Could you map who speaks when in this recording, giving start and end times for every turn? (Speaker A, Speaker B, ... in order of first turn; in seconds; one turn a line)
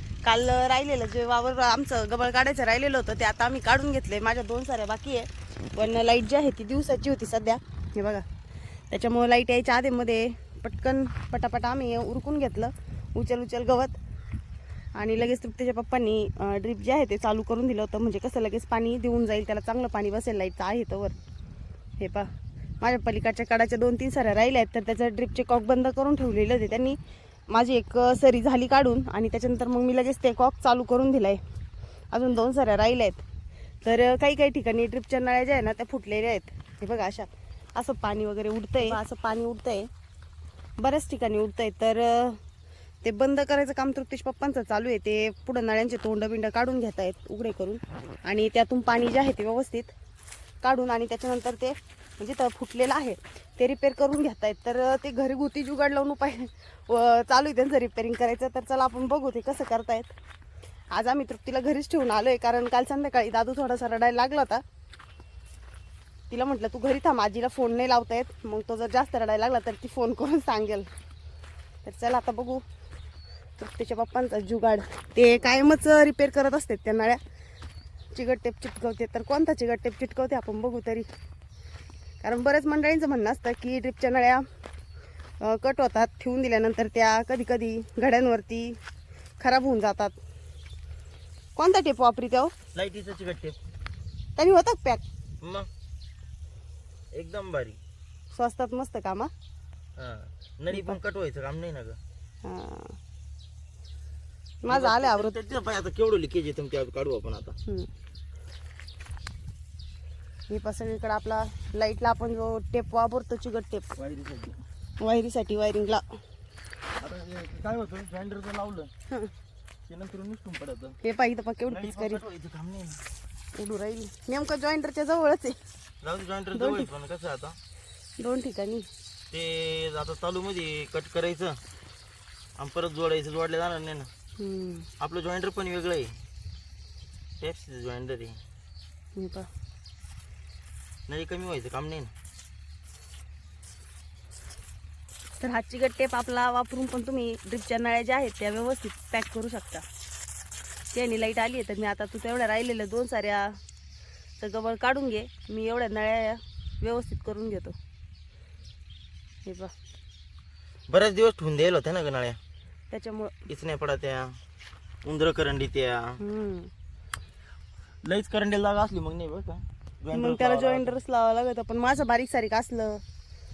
Speaker A: 0.2-8.2
Speaker A: 8.9-13.9
Speaker A: 14.9-21.1
Speaker A: 22.0-22.3
Speaker A: 22.8-27.0
Speaker A: 27.5-31.4
Speaker A: 32.1-33.2
Speaker A: 33.8-39.9
Speaker A: 40.8-42.4
Speaker A: 43.0-49.9
Speaker A: 50.6-60.1
Speaker A: 60.9-64.6
Speaker A: 66.3-70.9
Speaker A: 71.8-72.6
Speaker A: 73.6-77.2
Speaker A: 78.1-81.1
Speaker A: 82.2-84.4
Speaker A: 85.4-88.8
Speaker A: 89.4-90.2
Speaker A: 91.5-92.5
Speaker B: 92.7-93.6
Speaker A: 94.4-95.0
Speaker B: 95.4-95.7
Speaker B: 97.1-97.8
Speaker A: 98.3-99.3
Speaker B: 100.0-102.0
Speaker A: 100.7-101.0
Speaker A: 102.4-103.0
Speaker A: 104.6-105.3
Speaker B: 104.7-107.5
Speaker A: 110.5-113.9
Speaker B: 114.0-114.6
Speaker A: 115.0-116.0
Speaker B: 117.0-118.9
Speaker B: 119.9-121.0
Speaker A: 121.0-122.2
Speaker B: 121.7-123.0
Speaker A: 123.5-125.6
Speaker B: 126.0-127.6
Speaker A: 126.5-126.9
Speaker A: 128.2-128.9
Speaker B: 129.3-131.6
Speaker B: 132.6-134.1
Speaker A: 134.4-134.9
Speaker B: 135.0-136.2
Speaker B: 137.4-138.4
Speaker A: 139.2-139.5
Speaker B: 141.1-142.1
Speaker A: 145.4-149.8
Speaker A: 150.9-153.6
Speaker A: 154.4-157.8
Speaker A: 159.4-159.7
Speaker B: 160.9-162.4
Speaker A: 162.9-163.4
Speaker B: 163.5-164.4
Speaker B: 165.0-166.2
Speaker A: 166.2-166.7
Speaker B: 168.0-170.9
Speaker A: 170.1-173.0